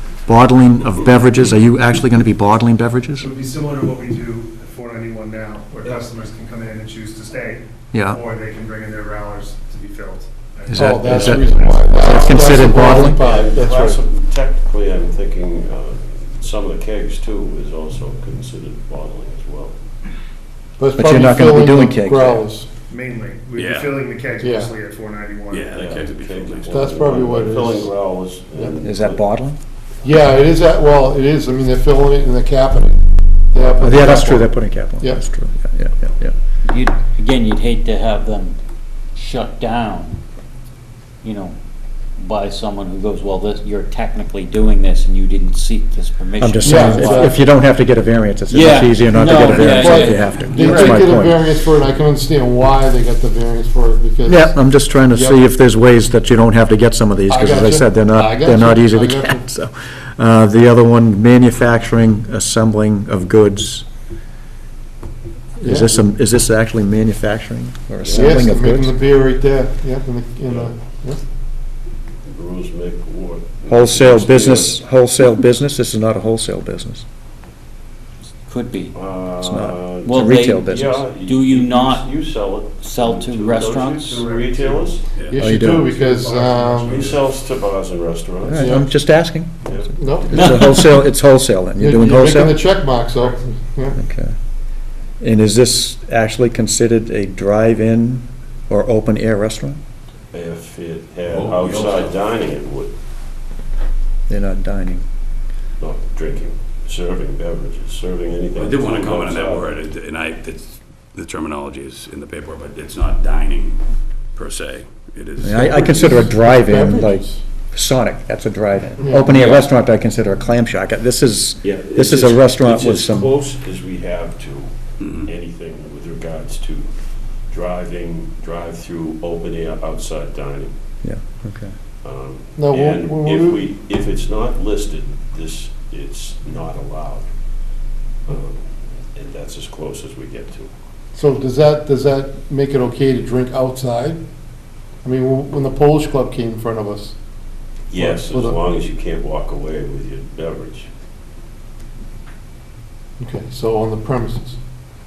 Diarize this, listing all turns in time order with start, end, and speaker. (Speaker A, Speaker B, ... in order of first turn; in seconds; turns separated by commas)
Speaker A: 0.3-3.3, Speaker B: 3.2-11.7, Speaker A: 7.9-8.2, Speaker A: 10.7-13.2, Speaker C: 10.7-14.0, Speaker D: 12.0-19.7, Speaker C: 20.8-22.7, Speaker A: 21.0-22.4, Speaker B: 22.9-25.9, Speaker E: 23.6-24.0, Speaker C: 24.4-24.7, Speaker E: 25.5-26.7, Speaker D: 25.7-29.2, Speaker C: 26.7-27.9, Speaker A: 28.8-29.6, Speaker C: 30.0-35.2, Speaker A: 33.8-36.3, Speaker F: 36.6-38.6, Speaker F: 39.1-40.2, Speaker F: 41.2-41.5, Speaker F: 42.2-47.4, Speaker A: 46.4-51.5, Speaker C: 46.6-47.4, Speaker F: 48.5-51.0, Speaker C: 49.3-55.4, Speaker A: 54.2-63.8, Speaker C: 57.3-59.5, Speaker A: 65.6-68.9, Speaker C: 65.6-66.0, Speaker D: 68.0-68.3, Speaker C: 68.1-71.2, Speaker D: 72.2-74.8, Speaker A: 73.7-77.0, Speaker F: 78.4-78.9, Speaker D: 78.9-85.1, Speaker A: 79.4-81.0, Speaker F: 80.0-82.1, Speaker F: 82.8-84.2, Speaker B: 84.2-85.0, Speaker E: 85.1-85.6, Speaker C: 85.3-87.0, Speaker A: 85.3-85.9, Speaker B: 85.7-87.2, Speaker D: 86.8-88.9, Speaker A: 88.4-92.6, Speaker C: 88.5-88.9, Speaker D: 89.6-90.5, Speaker C: 90.0-90.4, Speaker F: 90.3-91.0, Speaker C: 91.8-94.0, Speaker A: 94.0-94.3, Speaker A: 95.2-99.8, Speaker D: 100.3-102.9, Speaker E: 101.5-102.0, Speaker A: 104.3-105.0, Speaker D: 105.8-109.8, Speaker E: 108.5-113.8, Speaker E: 114.3-116.2, Speaker A: 115.4-123.3, Speaker C: 115.6-117.4, Speaker C: 119.0-119.3, Speaker D: 119.3-119.6, Speaker D: 121.6-126.9, Speaker E: 125.0-125.3, Speaker D: 127.5-130.7, Speaker A: 131.0-131.7, Speaker D: 132.0-137.3, Speaker C: 132.6-133.7, Speaker D: 138.3-138.6, Speaker D: 139.1-140.7, Speaker C: 141.1-144.2, Speaker C: 145.0-147.2, Speaker D: 147.9-150.9, Speaker C: 148.0-148.6, Speaker C: 153.2-154.6